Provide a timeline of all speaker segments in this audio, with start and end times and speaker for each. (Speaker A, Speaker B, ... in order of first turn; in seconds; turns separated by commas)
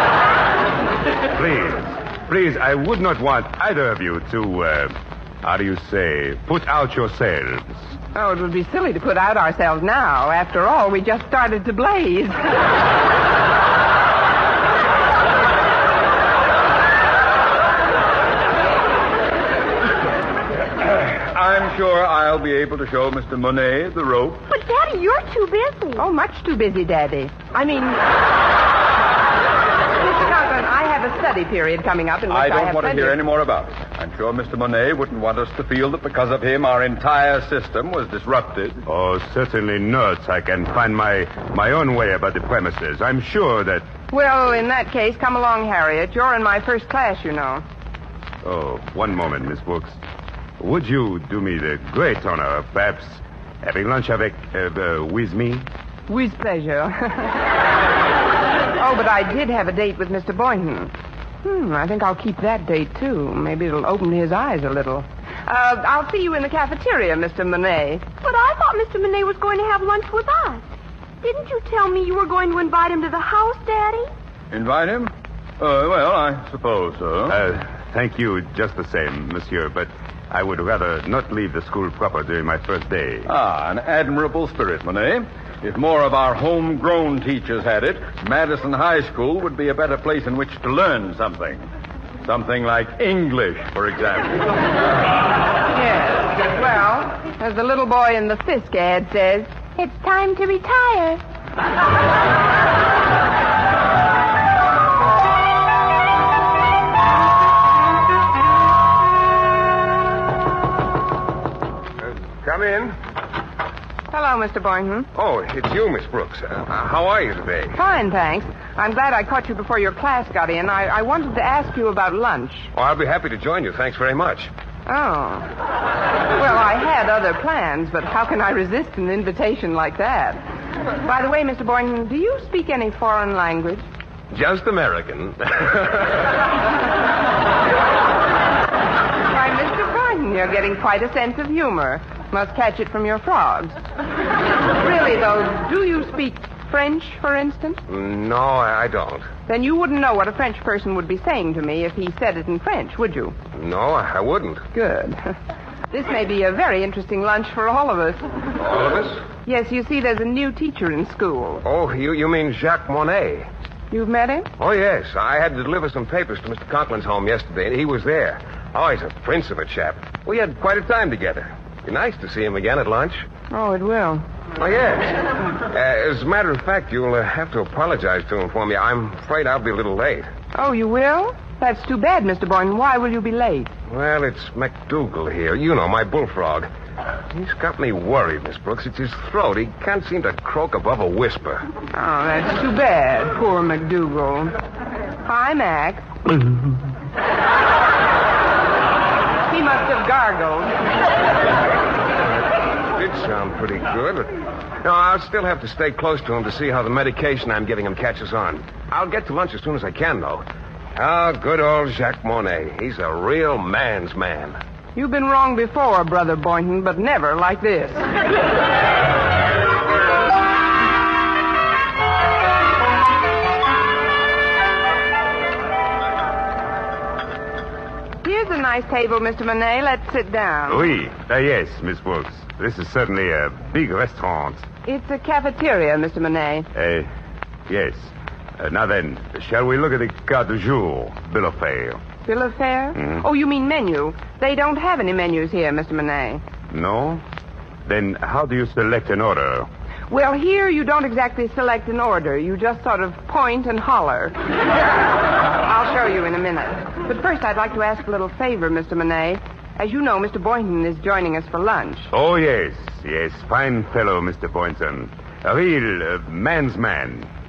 Speaker A: 1.3-7.8, Speaker B: 8.2-12.4, Speaker C: 20.8-24.4, Speaker D: 24.5-26.1, Speaker B: 26.0-28.0, Speaker B: 30.0-33.2, Speaker C: 32.3-38.8, Speaker A: 38.9-43.9, Speaker B: 44.1-47.6, Speaker A: 48.4-50.0, Speaker A: 50.6-55.7, Speaker B: 56.1-57.4, Speaker B: 58.8-68.1, Speaker D: 68.2-70.7, Speaker D: 71.2-74.1, Speaker C: 74.5-77.4, Speaker A: 77.3-83.3, Speaker C: 83.2-91.7, Speaker C: 92.2-94.5, Speaker B: 95.7-101.2, Speaker E: 112.0-113.0, Speaker B: 114.1-115.1, Speaker E: 115.1-117.8, Speaker B: 117.8-122.7, Speaker E: 122.7-124.5, Speaker B: 124.9-125.5, Speaker B: 126.4-130.4, Speaker B: 131.0-133.8, Speaker E: 134.3-136.3, Speaker B: 139.3-143.8, Speaker B: 144.7-147.8, Speaker E: 147.9-149.3, Speaker B: 149.5-153.4, Speaker E: 153.5-154.7, Speaker B: 154.7-155.3, Speaker B: 155.9-158.2, Speaker E: 158.6-159.2, Speaker B: 159.4-161.6, Speaker E: 161.6-163.5, Speaker B: 163.9-164.5, Speaker E: 164.6-173.2, Speaker B: 173.5-174.3, Speaker E: 174.6-180.3, Speaker B: 180.5-183.7, Speaker E: 183.9-186.7, Speaker E: 187.3-191.7, Speaker B: 191.9-194.5, Speaker B: 195.2-196.4, Speaker B: 199.5-200.8, Speaker E: 202.9-204.3, Speaker E: 204.8-214.6, Speaker B: 215.0-218.0, Speaker B: 228.2-230.9, Speaker A: 230.7-234.7, Speaker B: 234.8-236.7, Speaker A: 236.7-237.1, Speaker A: 237.7-242.0, Speaker B: 242.3-246.4, Speaker A: 243.0-243.2, Speaker A: 246.7-247.2, Speaker A: 247.9-249.7, Speaker B: 250.1-254.4, Speaker B: 255.5-262.1, Speaker A: 262.1-267.3